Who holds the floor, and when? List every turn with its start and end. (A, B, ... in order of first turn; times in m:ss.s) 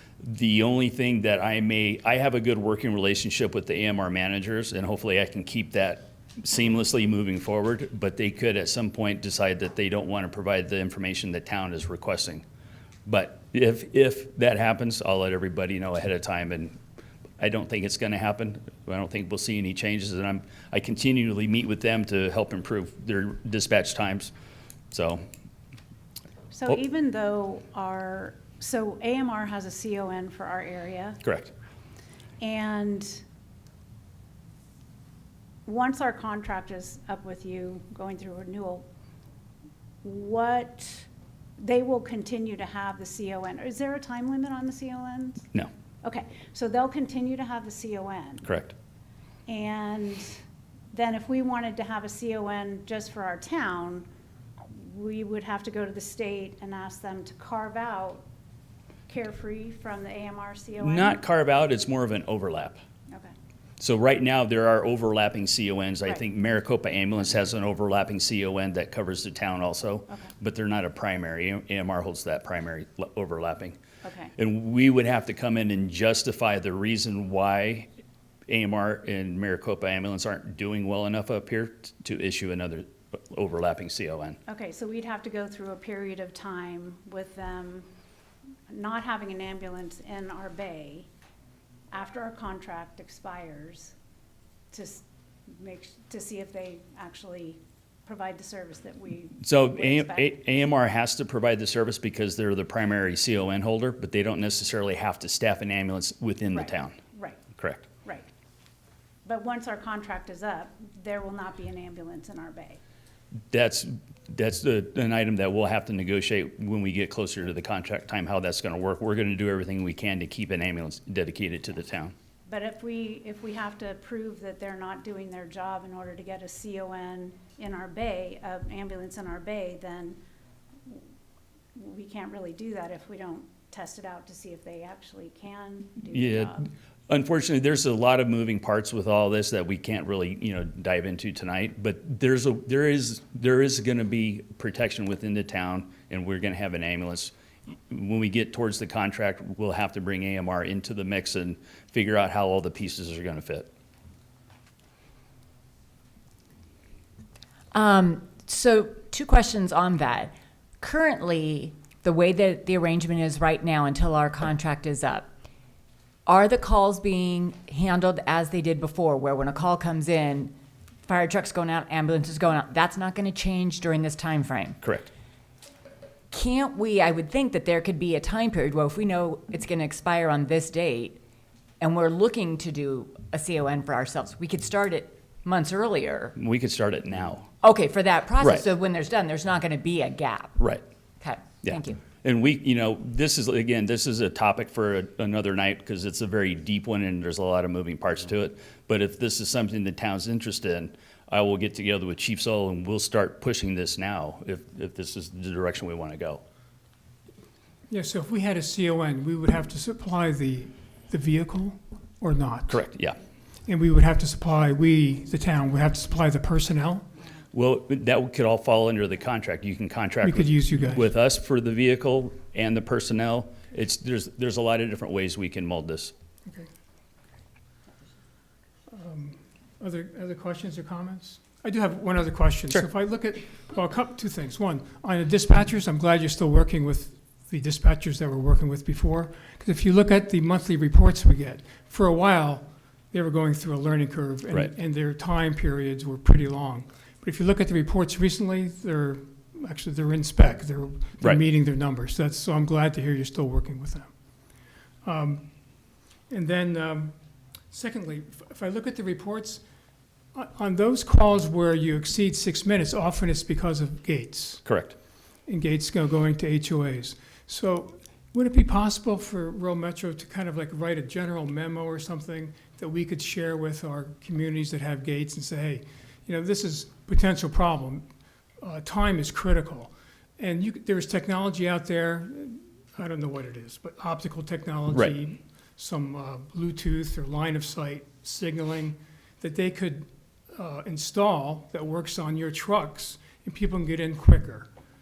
0:00.2-0:12.4 A
0:13.1-0:16.8 A
0:17.4-0:24.3 A
0:24.9-0:25.2 A
0:26.5-0:31.2 B
0:31.2-0:31.5 A
0:32.4-0:33.2 B
0:35.7-0:38.9 B
0:40.0-0:41.1 B
0:41.6-0:45.5 B
0:46.0-0:48.4 B
0:48.4-0:48.7 A
0:49.5-0:50.4 B
0:50.9-0:54.1 B
0:54.7-0:58.3 B
0:59.1-1:01.2 B
1:00.8-1:02.8 A
1:03.8-1:13.8 A
1:14.0-1:14.3 B
1:14.4-1:17.9 A
1:18.5-1:24.4 A
1:24.5-1:27.9 B
1:28.7-1:31.1 B
1:31.9-1:33.9 B
1:34.7-1:40.3 B
1:39.4-1:47.0 A
1:46.5-1:47.4 B
1:47.6-1:47.9 A
1:49.2-1:52.8 B
1:53.5-2:02.1 A
2:02.5-2:10.2 B
2:11.8-2:16.7 B
2:16.1-2:27.3 A
2:27.9-2:33.7 A
2:37.7-2:45.3 C
2:46.3-2:50.5 C
2:51.1-2:54.8 C
2:54.8-2:55.1 A
2:56.3-3:01.2 C
3:01.8-3:06.3 C
3:06.4-3:07.5 A
3:07.6-3:10.6 C
3:10.6-3:10.8 A
3:11.2-3:12.0 C
3:11.6-3:26.4 A
3:27.9-3:32.8 D
3:32.7-3:33.2 A
3:33.7-3:37.1 D
3:37.5-3:46.1 A
3:40.2-3:41.1 D
3:48.9-4:14.1 D
4:15.0-4:15.4 D
4:16.3-4:17.1 D
4:17.7-4:19.6 D
4:20.3-4:24.6 D
4:24.6-4:25.0 A
4:25.5-4:38.1 D
4:38.6-4:54.7 D